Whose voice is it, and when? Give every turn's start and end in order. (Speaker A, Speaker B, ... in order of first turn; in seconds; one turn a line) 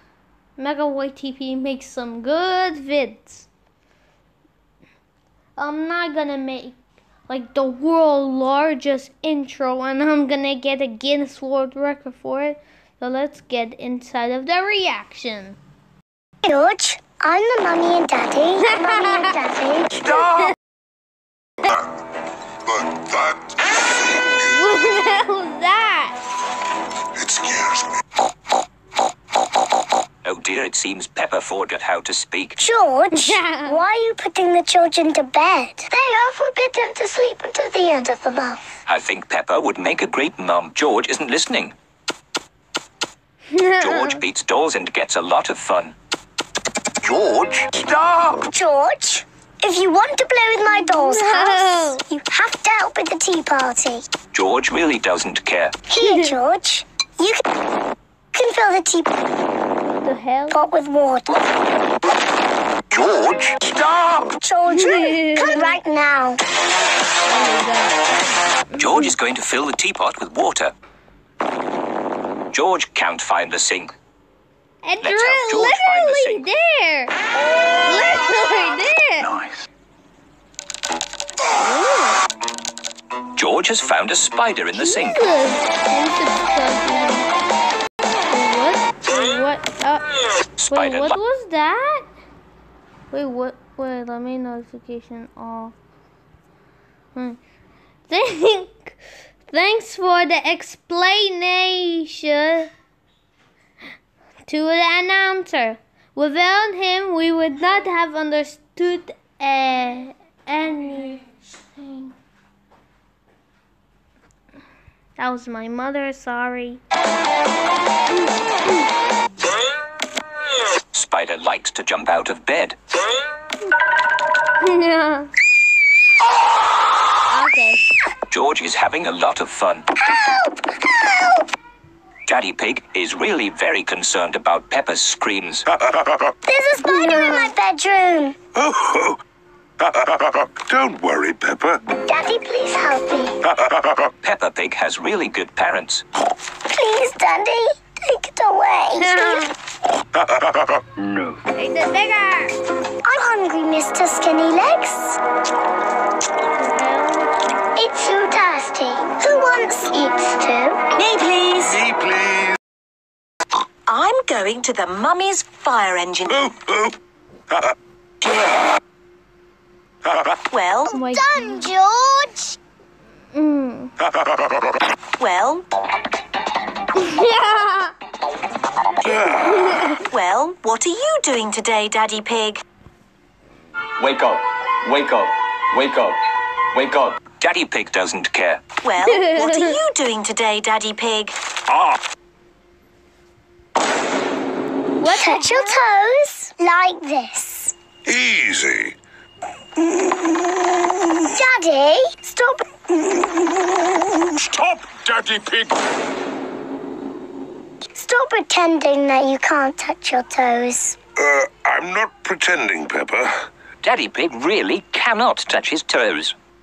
Speaker A: 0.6-3.5
Speaker A: 5.5-15.6
Speaker B: 16.4-20.2
Speaker A: 18.8-19.3
Speaker A: 20.1-20.5
Speaker C: 22.7-23.5
Speaker A: 24.2-26.2
Speaker C: 27.1-28.0
Speaker D: 30.2-32.6
Speaker B: 32.6-38.6
Speaker A: 33.1-33.8
Speaker D: 38.9-41.7
Speaker A: 43.5-44.2
Speaker D: 43.8-45.9
Speaker C: 47.0-48.2
Speaker B: 47.9-54.0
Speaker A: 50.8-52.0
Speaker D: 54.3-55.7
Speaker B: 55.9-57.4
Speaker A: 56.0-56.3
Speaker B: 58.3-59.1
Speaker A: 59.8-60.6
Speaker B: 60.5-61.4
Speaker C: 62.9-64.1
Speaker B: 64.3-66.4
Speaker A: 64.7-65.8
Speaker A: 67.2-68.0
Speaker A: 68.7-69.1
Speaker D: 68.8-70.7
Speaker D: 72.5-73.9
Speaker A: 74.8-77.1
Speaker D: 75.0-76.5
Speaker A: 77.8-79.4
Speaker A: 81.6-82.1
Speaker D: 83.3-85.2
Speaker A: 84.7-87.3
Speaker A: 88.3-90.1
Speaker D: 90.6-91.2
Speaker A: 90.7-92.1
Speaker A: 93.1-95.7
Speaker A: 98.1-99.0
Speaker A: 99.5-102.7
Speaker A: 104.5-111.2
Speaker A: 111.8-112.1
Speaker A: 115.2-116.8
Speaker D: 120.9-122.8
Speaker A: 124.6-125.3
Speaker A: 127.3-127.8
Speaker D: 128.3-129.8
Speaker B: 130.0-131.5
Speaker D: 132.3-135.7
Speaker C: 135.9-136.3
Speaker B: 136.4-138.3
Speaker A: 136.8-137.5
Speaker C: 138.5-139.2
Speaker C: 139.8-141.8
Speaker B: 142.1-143.3
Speaker C: 143.5-144.1
Speaker D: 144.2-146.0
Speaker B: 146.7-149.5
Speaker A: 149.0-149.5
Speaker A: 151.5-152.5
Speaker B: 153.0-155.2
Speaker A: 156.5-157.3
Speaker B: 157.8-160.8
Speaker E: 160.9-161.8
Speaker C: 161.7-162.6
Speaker E: 163.9-166.5
Speaker C: 166.4-166.9
Speaker E: 168.2-168.5
Speaker E: 170.5-170.9
Speaker B: 170.9-172.6
Speaker A: 170.9-171.7
Speaker A: 173.3-173.9
Speaker E: 175.2-175.7
Speaker A: 177.0-177.9
Speaker C: 179.1-179.6
Speaker A: 179.5-180.0
Speaker E: 180.1-182.6
Speaker F: 184.0-187.2
Speaker D: 187.4-188.6
Speaker E: 188.8-191.3
Speaker A: 189.0-189.8
Speaker C: 191.7-192.0
Speaker A: 195.0-195.8
Speaker B: 195.0-197.7
Speaker C: 198.1-198.9
Speaker B: 201.3-202.7
Speaker C: 204.3-205.7
Speaker B: 207.9-211.0
Speaker C: 211.2-213.4
Speaker D: 213.8-216.3